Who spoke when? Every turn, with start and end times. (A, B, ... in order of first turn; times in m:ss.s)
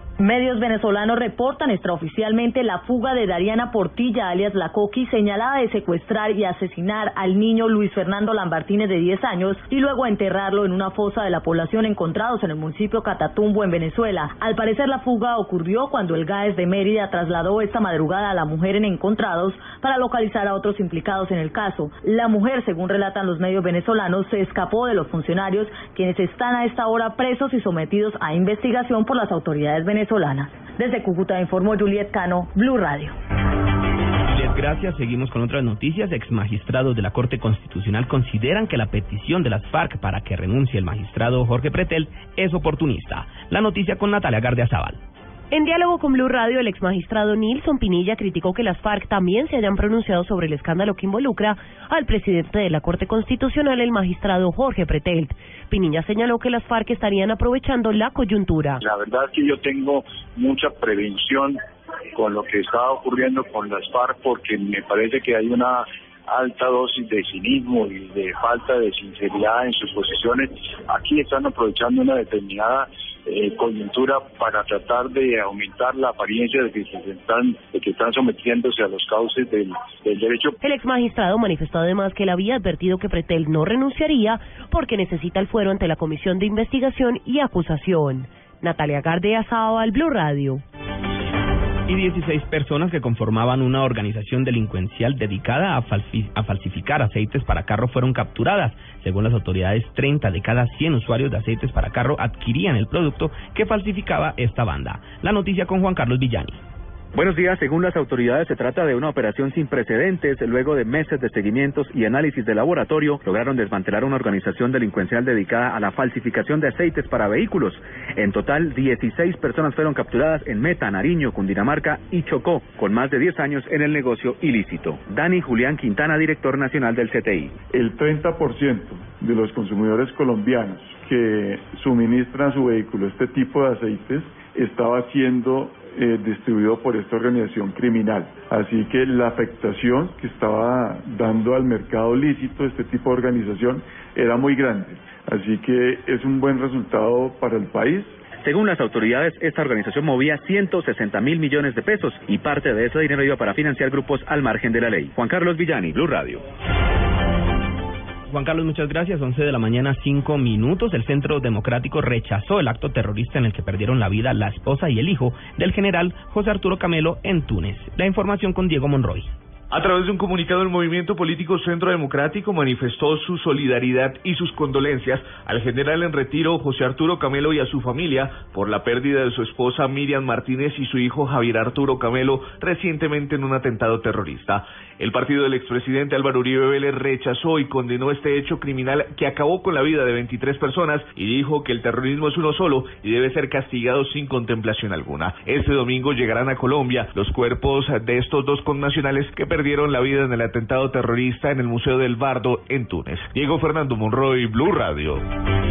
0:00.2-0:33.1 A
0:34.3-0:45.0 B
0:45.5-0:58.8 C
0:58.8-1:01.6 D
1:02.1-1:20.6 D
1:20.6-1:30.6 C
1:31.9-1:46.6 B
1:47.1-2:07.6 E
2:07.7-2:28.2 F
2:28.4-2:36.4 E
2:38.3-2:49.3 B
2:49.7-3:25.2 G